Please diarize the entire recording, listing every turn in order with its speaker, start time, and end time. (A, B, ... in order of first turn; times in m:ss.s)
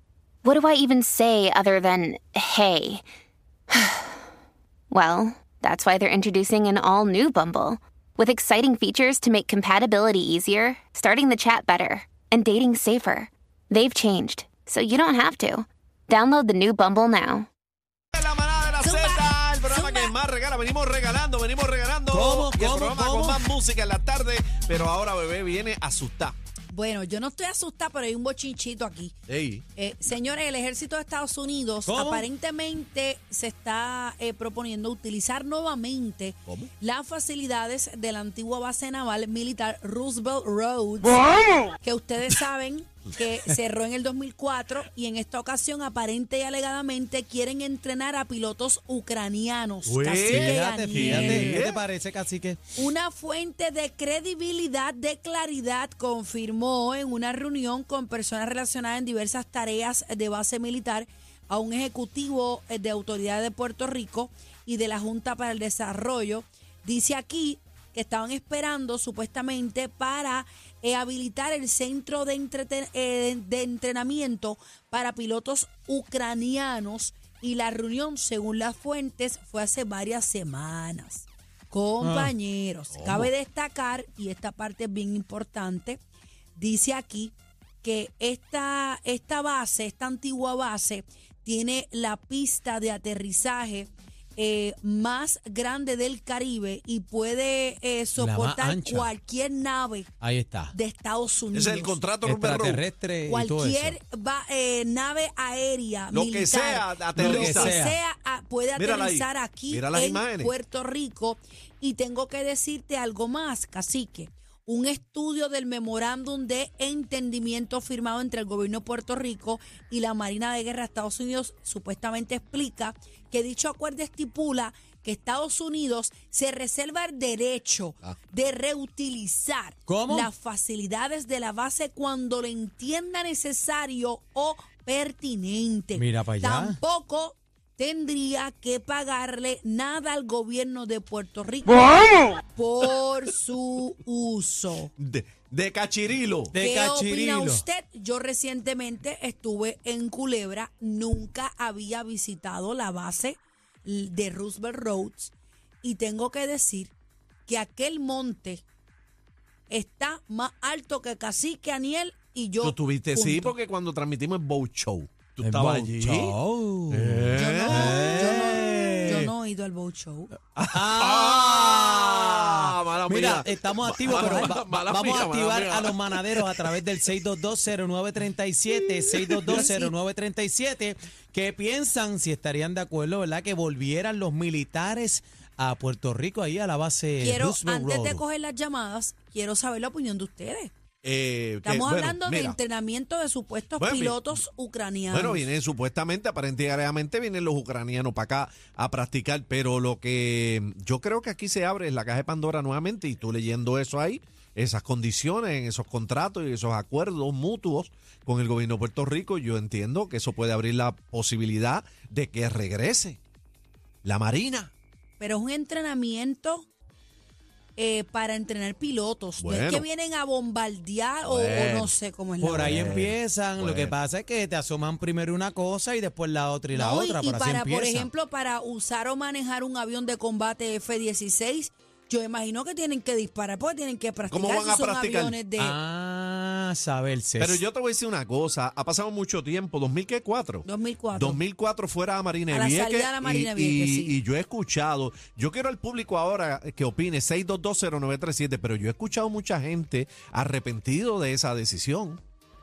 0:00.4-0:03.0 A
0:04.9-0:17.5 A
0:18.1-0:26.3 B
0:18.8-0:20.1 C
0:22.1-0:23.4 D
0:26.7-0:29.1 C
0:29.3-0:29.6 B
0:29.8-0:51.6 C
0:31.9-0:32.2 D
0:49.8-0:51.8 B
0:50.2-0:52.6 D
0:52.8-1:26.0 C
1:22.0-1:22.3 D
1:22.9-1:23.3 B
1:26.6-1:40.1 C
1:38.2-1:39.1 D
1:40.2-1:40.7 D
1:40.7-1:42.0 C
1:41.5-1:42.8 B
1:42.2-1:44.0 D
1:43.3-2:24.9 C
1:46.1-1:47.7 B
1:47.2-1:48.0 D
1:48.8-1:50.5 B
2:09.9-2:10.3 D
2:15.9-2:16.8 D
2:25.0-2:26.5 B
2:26.5-2:27.6 D
2:26.6-2:36.9 C
2:37.4-2:38.6 C
2:39.7-2:43.5 C
2:42.6-2:46.4 B
2:45.4-2:49.3 D
2:46.9-2:49.2 B
2:47.3-2:50.3 C
2:50.6-2:56.8 B
2:50.7-3:08.2 D
2:54.2-2:54.5 C
2:59.2-2:59.6 B
2:59.5-2:59.9 C
3:07.2-3:10.7 C
3:11.0-3:12.6 B
3:11.6-3:15.5 C
3:13.8-3:14.3 B
3:15.1-3:33.2 B
3:34.0-3:34.7 B
3:35.2-3:36.7 C
3:37.8-3:42.8 C
3:39.4-3:39.8 B
3:41.2-3:41.9 B
3:42.4-3:48.1 D
3:42.5-3:43.9 B
3:46.7-3:55.8 C
3:54.3-3:55.4 B
3:55.6-3:57.6 D
3:57.4-4:12.2 B
4:00.6-4:01.4 C
4:02.5-4:04.2 C